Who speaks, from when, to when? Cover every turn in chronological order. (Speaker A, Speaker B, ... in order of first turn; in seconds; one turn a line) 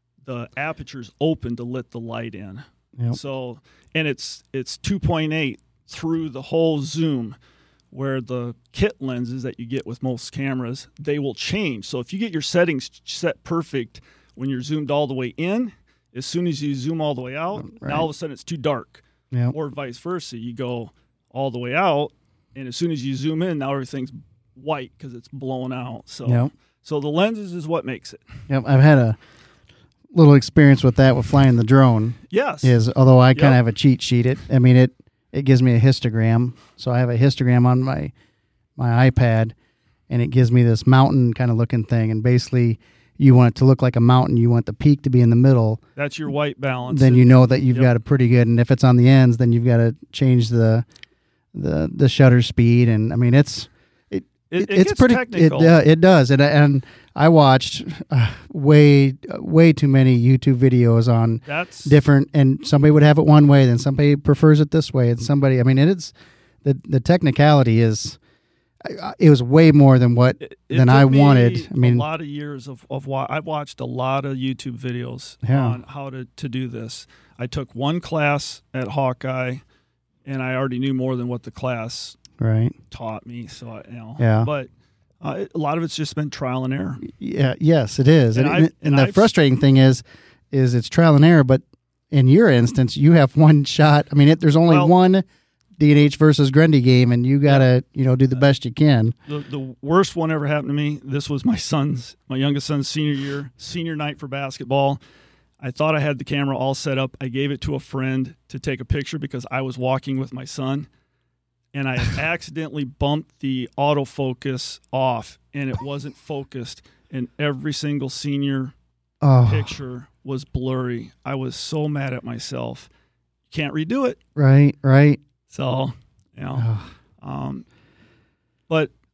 Speaker A: 0.2-7.4
Speaker A: 7.9-28.2
Speaker B: 17.6-18.1
Speaker B: 26.2-26.5
Speaker B: 28.5-29.2
Speaker B: 30.1-38.1
Speaker A: 32.3-32.8
Speaker A: 33.3-33.6
Speaker B: 38.8-39.5
Speaker B: 40.1-45.8
Speaker A: 46.0-47.9
Speaker B: 46.9-50.8
Speaker B: 51.5-66.1
Speaker A: 54.5-55.7
Speaker A: 61.5-61.9
Speaker B: 66.6-68.2
Speaker B: 68.8-72.0
Speaker A: 70.4-79.6
Speaker B: 75.4-75.8
Speaker A: 80.2-82.2
Speaker B: 82.4-82.7
Speaker A: 82.9-84.7
Speaker B: 84.2-84.5
Speaker A: 85.2-87.0
Speaker B: 87.0-95.2
Speaker A: 88.3-89.3
Speaker A: 94.7-94.9
Speaker B: 95.8-99.1
Speaker A: 99.3-105.0
Speaker A: 105.6-110.9
Speaker A: 111.7-118.7
Speaker B: 119.2-119.8
Speaker A: 119.5-122.9
Speaker A: 123.5-124.2
Speaker B: 124.3-125.2
Speaker A: 125.5-127.6
Speaker B: 126.5-126.9